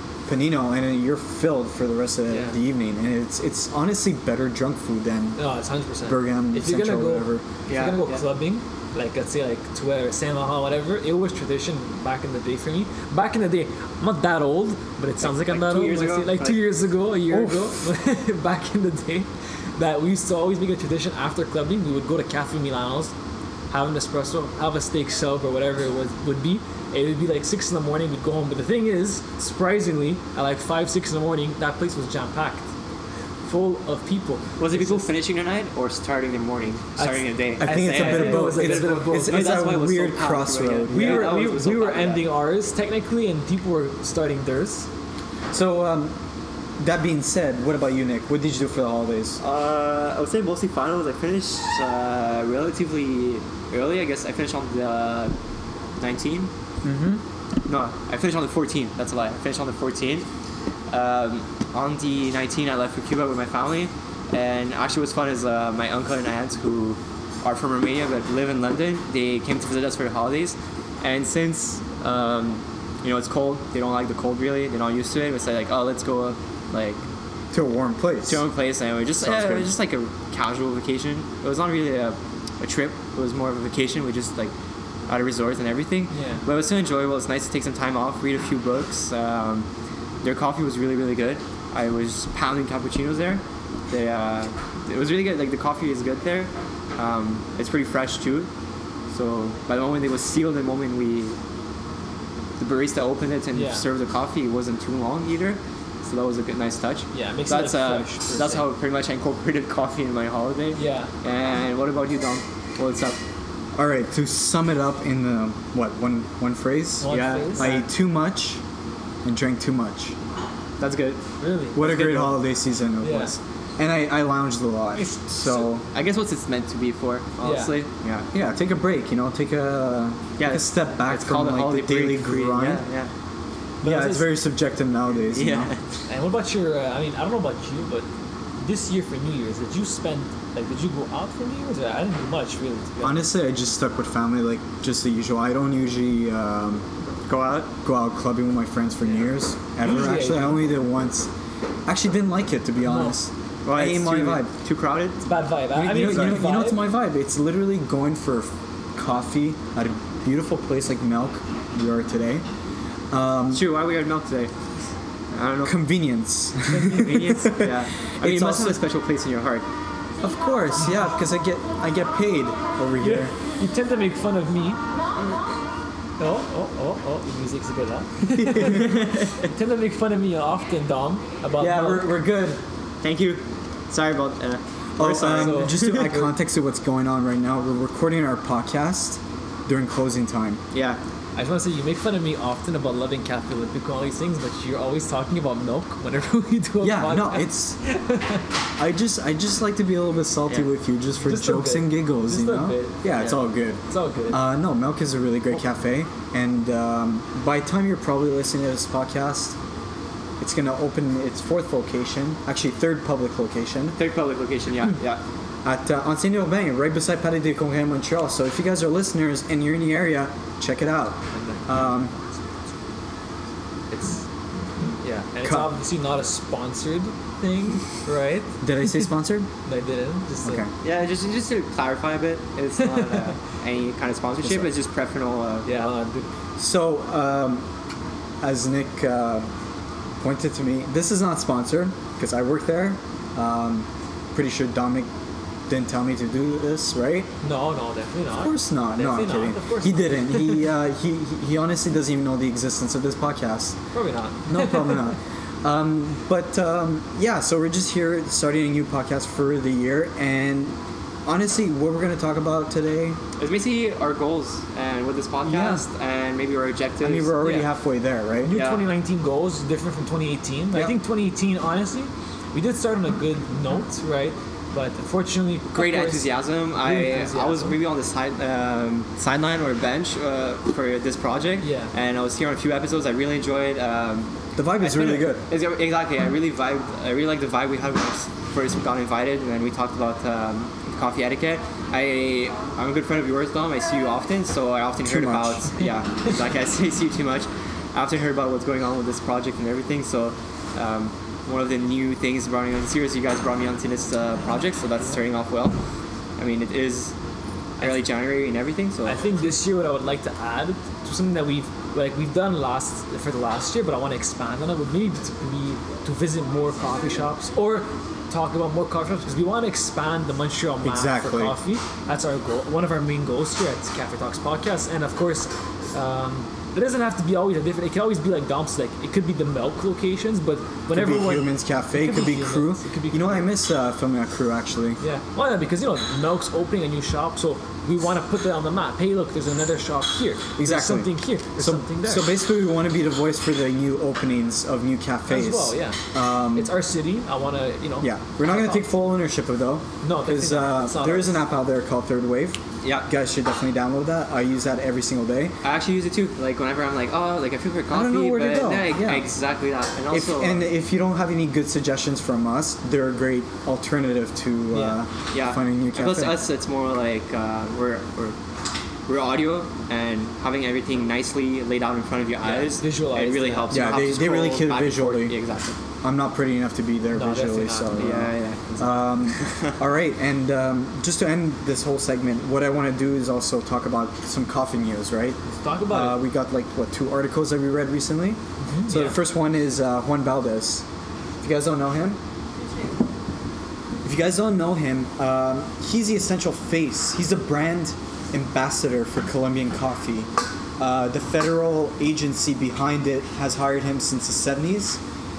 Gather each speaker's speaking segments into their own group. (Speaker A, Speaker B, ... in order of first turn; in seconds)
Speaker A: 0.3-5.4, 6.0-7.4, 17.3-17.7, 37.6-41.4, 45.5-46.1, 46.8-49.4, 56.8-57.2, 77.5-78.4, 79.1-79.7, 113.8-118.6, 119.2-120.1, 121.7-125.8, 128.3-132.8, 133.8-135.7, 143.0-146.8, 147.8-151.3, 151.9-154.5, 155.7-162.4, 163.1-163.6, 165.6-168.8, 170.2-173.3, 181.6-182.6, 185.0-190.6, 196.8-197.7, 198.8-209.6, 210.4-214.0, 215.6-222.1, 225.4-225.7, 228.6-229.5, 230.4-230.7, 234.4-234.7, 236.6-237.6, 238.4-239.5, 240.2-245.1, 245.7-247.3, 248.4-253.8, 254.5-260.7, 261.2-263.2, 265.4-265.9, 267.0-268.6, 270.7-271.0, 284.6-285.4, 295.0-295.6, 320.8-321.6, 330.9-335.0, 340.6-346.7, 348.0-355.5, 357.9-359.2, 360.1-366.4, 373.7-375.4, 376.0-390.8, 391.4-392.2, 394.0-400.3, 400.8-405.0
Speaker B: 2.3-2.6, 5.4-23.1, 23.7-32.6, 33.5-35.1, 37.0-39.9, 40.9-44.9, 86.1-86.5, 103.5-103.8, 107.1-108.7, 110.8-111.1, 117.0-117.9, 121.4-122.4, 123.0-123.4, 124.9-125.7, 127.4-127.8, 133.8-134.3, 136.1-138.1, 138.6-143.3, 149.8-150.7, 152.8-153.2, 155.2-156.9, 166.8-167.3, 173.0-174.8, 176.2-182.1, 185.3-186.3, 191.3-198.4, 201.2-204.4, 221.3-222.3, 223.9-224.2, 225.0-229.0, 229.7-230.6, 232.8-233.2, 235.6-236.3, 247.4-250.7, 253.9-255.1, 267.4-267.7, 268.4-277.8, 281.6-281.9, 309.1-333.5, 335.0-342.3, 345.3-346.0, 346.5-348.9, 350.0-351.4, 372.4-373.9, 377.1-378.1, 385.4-386.2, 388.6-389.2
Speaker C: 7.7-8.2, 15.2-16.7, 34.6-42.3, 49.4-55.3, 56.0-56.5, 57.6-60.3, 60.9-77.0, 78.2-84.5, 85.1-89.7, 90.2-98.5, 99.1-101.4, 102.6-113.2, 120.8-121.2, 125.8-128.3, 130.4-133.1, 135.3-135.8, 147.3-147.7, 153.7-155.2, 163.5-164.5, 165.3-165.8, 166.7-169.6, 178.4-179.5, 183.0-186.1, 190.7-191.0, 213.9-215.2, 230.8-235.7, 263.4-267.4, 268.5-268.9, 275.7-305.8, 306.4-307.1, 307.8-309.2, 355.6-360.7, 365.3-368.4, 369.1-375.8, 377.9-379.8